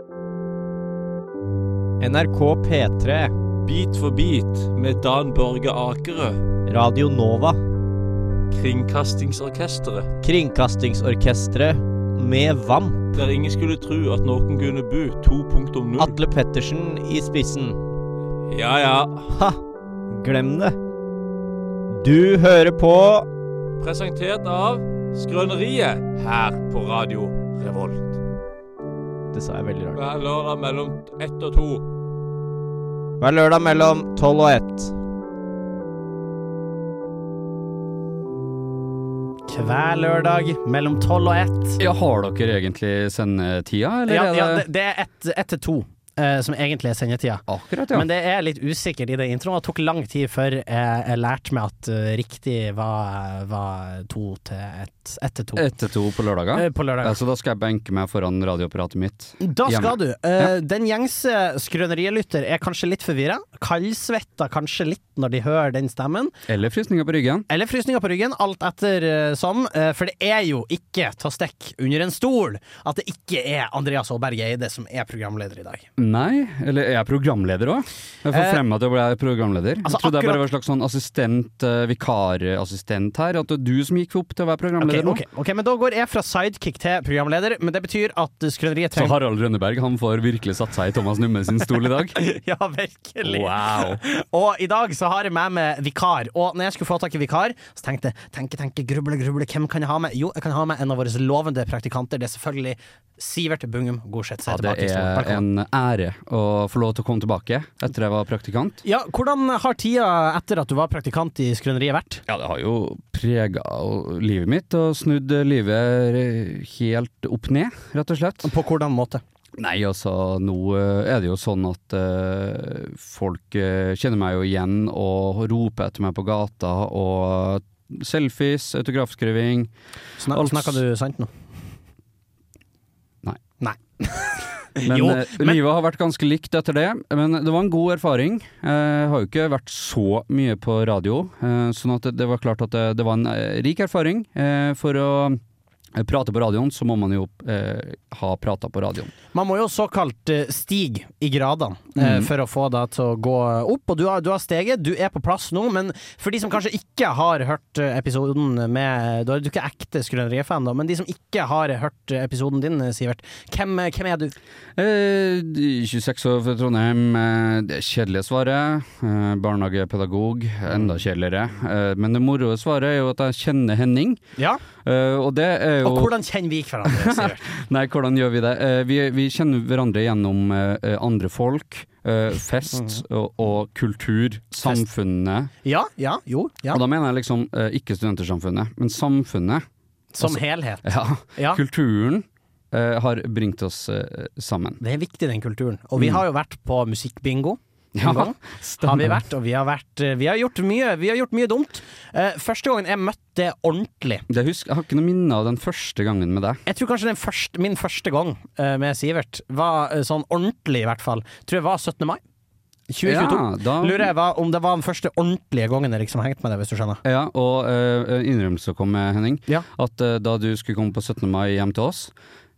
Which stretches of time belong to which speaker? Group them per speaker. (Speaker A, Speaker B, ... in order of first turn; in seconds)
Speaker A: 2.0-3.3, 6.7-7.6, 10.2-13.2, 16.0-17.8, 19.3-19.6, 20.1-20.8, 21.9-23.3, 29.3-30.1, 33.2-34.9
Speaker B: 3.6-6.4, 8.5-10.1, 13.2-16.2, 18.5-19.3, 23.8-28.2, 29.9-31.8
Speaker C: 39.5-41.8, 44.1-55.7, 56.5-57.2, 59.4-66.3, 67.5-75.9, 78.3-78.6, 79.8-80.4, 84.8-89.2, 92.2-105.4, 108.8-112.2, 118.4-119.2, 130.2-131.3, 133.6-135.6, 149.3-164.3, 170.7-170.9, 174.4-174.6, 175.8-177.4, 182.7-183.0, 185.6-186.8, 190.1-191.6, 194.8-204.2, 206.7-212.2, 212.9-217.0
Speaker D: 41.8-44.6, 47.5-48.1, 55.6-60.5, 66.5-67.5, 76.0-85.2, 88.9-92.2, 93.2-94.0, 104.5-108.8, 112.3-118.5, 119.6-129.7, 130.3-130.8, 134.8-145.4, 145.9-149.1, 152.0-152.3, 164.8-174.2, 174.8-176.2, 176.8-185.5, 186.7-189.7, 190.2-194.8, 196.0-196.2, 197.9-199.2, 204.3-206.6, 213.0-214.1, 217.1-222.1